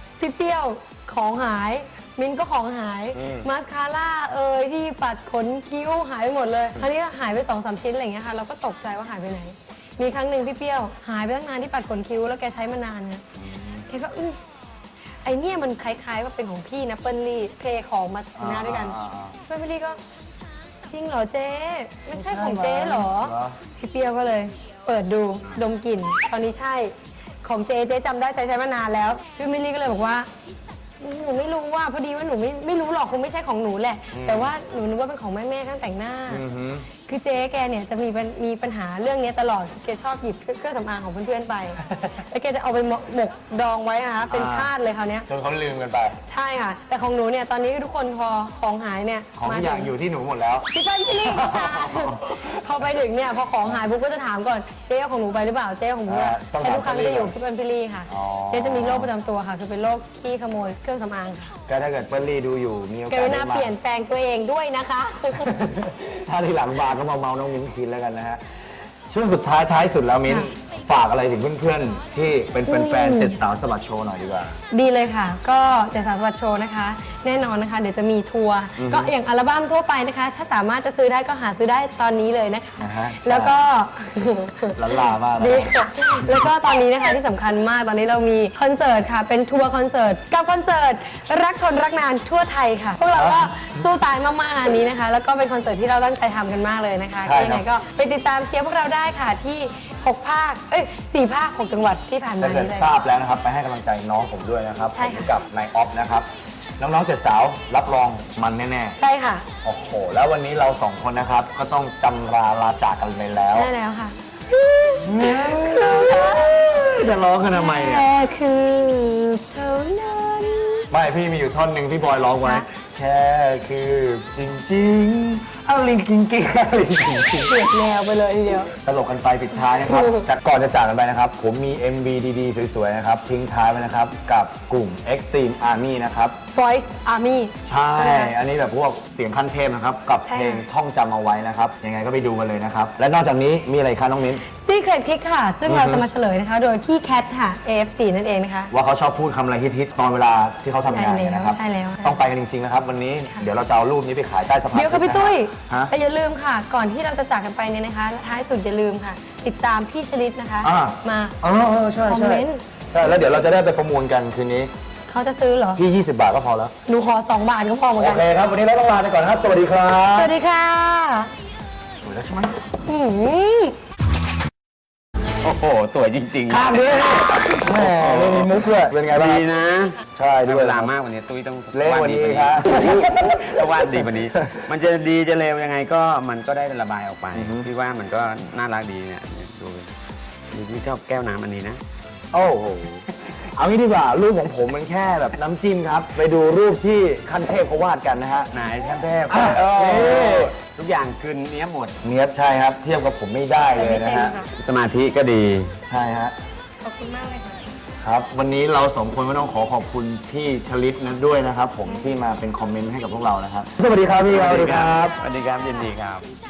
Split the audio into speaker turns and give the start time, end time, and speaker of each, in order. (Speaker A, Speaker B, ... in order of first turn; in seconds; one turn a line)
Speaker A: 0.2-13.2
Speaker B: 3.1-3.5
Speaker B: 13.4-13.9
Speaker A: 13.9-14.4
Speaker A: 15.2-20.0
Speaker B: 18.4-19.4
Speaker A: 20.9-30.3
Speaker B: 22.1-23.6
Speaker A: 31.0-36.4
Speaker B: 34.1-34.5
Speaker B: 36.3-36.9
Speaker A: 37.0-45.3
Speaker B: 44.3-44.7
Speaker B: 45.3-46.2
Speaker A: 46.2-49.9
Speaker B: 49.4-50.7
Speaker A: 50.7-61.5
Speaker B: 51.2-52.9
Speaker B: 56.1-57.3
Speaker B: 58.1-59.1
Speaker B: 61.7-63.7
Speaker A: 63.1-65.5
Speaker B: 65.4-68.4
Speaker B: 69.1-74.5
Speaker A: 72.7-73.4
Speaker A: 74.7-102.9
Speaker B: 78.8-79.1
Speaker B: 82.8-83.6
Speaker B: 84.8-86.5
Speaker B: 93.1-93.7
Speaker B: 97.2-97.6
Speaker B: 102.4-106.3
Speaker A: 104.9-105.3
Speaker B: 106.8-109.0
Speaker A: 109.0-109.4
Speaker B: 109.6-113.7
Speaker A: 113.5-120.9
Speaker B: 115.0-118.1
Speaker B: 120.9-127.6
Speaker A: 127.5-128.7
Speaker B: 128.7-136.4
Speaker A: 129.8-130.3
Speaker A: 136.5-138.3
Speaker B: 137.6-144.4
Speaker A: 140.3-140.6
Speaker A: 144.4-148.7
Speaker B: 145.7-146.0
Speaker B: 148.7-155.9
Speaker A: 150.9-152.2
Speaker A: 154.7-161.3
Speaker B: 160.6-164.7
Speaker A: 162.1-162.6
Speaker A: 165.1-165.8
Speaker B: 165.8-166.7
Speaker A: 166.8-168.2
Speaker B: 167.9-170.3
Speaker A: 170.1-171.3
Speaker B: 172.0-172.6
Speaker A: 172.8-173.8
Speaker C: 175.4-178.5
Speaker B: 176.5-179.4
Speaker C: 179.1-189.9
Speaker B: 180.1-180.9
Speaker B: 181.7-184.6
Speaker B: 187.3-187.7
Speaker C: 190.5-191.8
Speaker B: 192.3-198.5
Speaker C: 198.5-202.0
Speaker B: 199.3-200.5
Speaker B: 202.0-204.3
Speaker A: 203.7-204.5
Speaker C: 204.6-205.7
Speaker B: 205.8-206.3
Speaker A: 206.8-207.7
Speaker B: 208.0-215.2
Speaker A: 211.8-212.1
Speaker C: 214.2-216.3